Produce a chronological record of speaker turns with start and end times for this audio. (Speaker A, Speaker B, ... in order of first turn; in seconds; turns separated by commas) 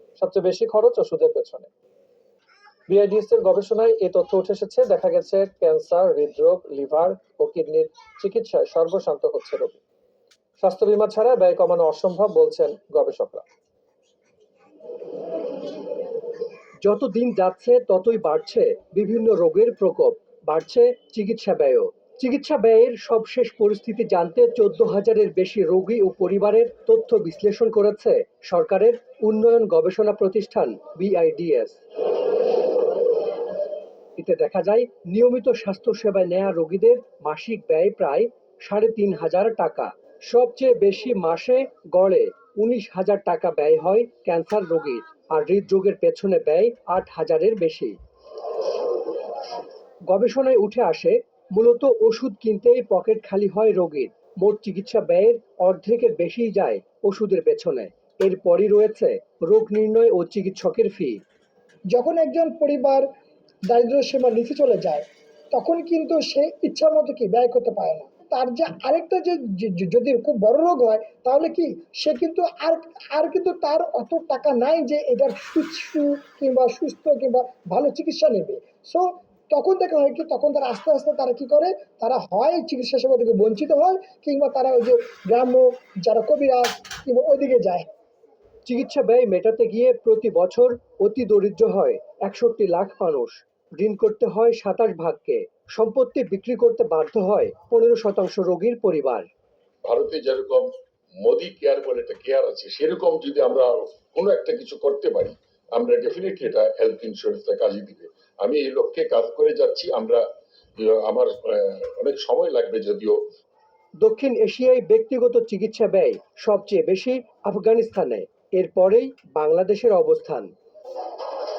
Speaker A: 0.2-1.7, Speaker A: 2.9-9.8, Speaker A: 10.6-13.4, Speaker B: 16.8-31.8, Speaker B: 34.2-48.0, Speaker B: 50.1-61.2, Speaker C: 61.9-63.0, Speaker C: 63.7-87.9, Speaker B: 88.7-99.3, Speaker D: 99.8-100.7, Speaker D: 101.2-110.2, Speaker D: 110.8-113.2, Speaker B: 114.0-120.5